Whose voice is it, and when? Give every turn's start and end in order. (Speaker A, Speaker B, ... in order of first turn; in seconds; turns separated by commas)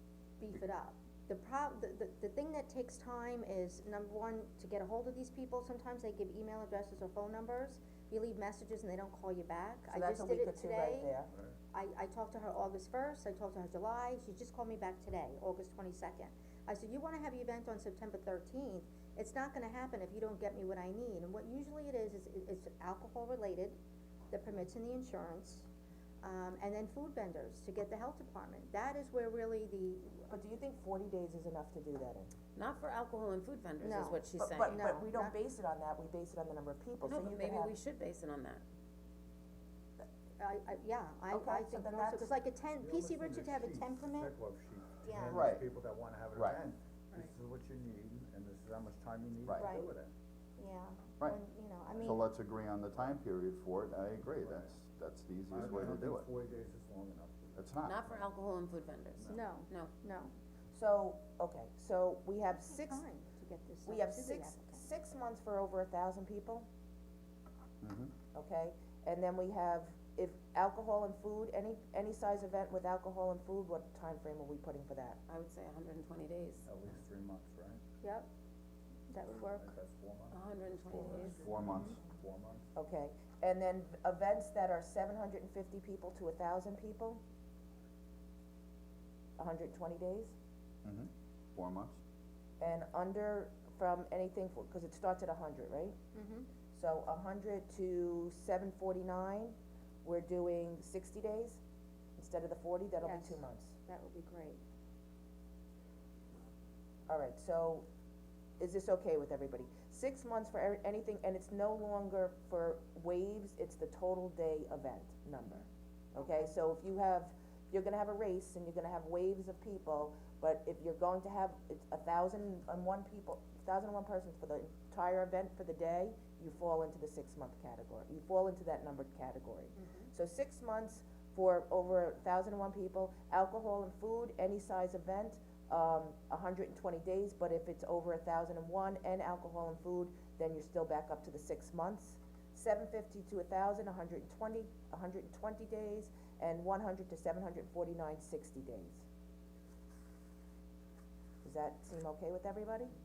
Speaker A: 0.4-11.1, Speaker B: 9.9-11.3, Speaker A: 11.7-23.8, Speaker A: 24.3-25.7, Speaker A: 26.2-30.3, Speaker B: 30.3-32.3, Speaker C: 32.5-35.0, Speaker A: 33.8-35.4, Speaker B: 34.4-37.7, Speaker C: 37.0-38.6, Speaker A: 40.4-44.3, Speaker B: 41.3-42.3, Speaker D: 42.8-50.1, Speaker A: 45.0-45.4, Speaker E: 45.3-45.7, Speaker E: 46.4-46.6, Speaker A: 49.6-49.9, Speaker A: 50.6-52.2, Speaker D: 51.9-52.3, Speaker E: 52.0-56.3, Speaker D: 52.9-53.2, Speaker D: 54.4-54.8, Speaker D: 55.5-58.2, Speaker E: 57.6-58.0, Speaker C: 57.8-59.9, Speaker A: 59.3-60.3, Speaker B: 60.7-63.0, Speaker A: 62.5-64.8, Speaker B: 63.9-66.7, Speaker E: 67.8-68.1, Speaker B: 68.3-75.2, Speaker C: 75.3-76.6, Speaker D: 76.7-77.8, Speaker A: 79.1-79.7, Speaker D: 79.5-80.4, Speaker C: 80.3-81.4, Speaker D: 80.9-82.7, Speaker E: 81.1-82.0, Speaker B: 82.8-87.2, Speaker B: 89.4-90.3, Speaker E: 90.8-92.0, Speaker B: 92.6-96.0, Speaker A: 96.2-96.5, Speaker B: 96.7-101.6, Speaker B: 102.2-103.8, Speaker A: 103.0-104.6, Speaker B: 107.1-107.8, Speaker B: 108.6-149.0, Speaker A: 129.8-130.1, Speaker B: 151.4-152.9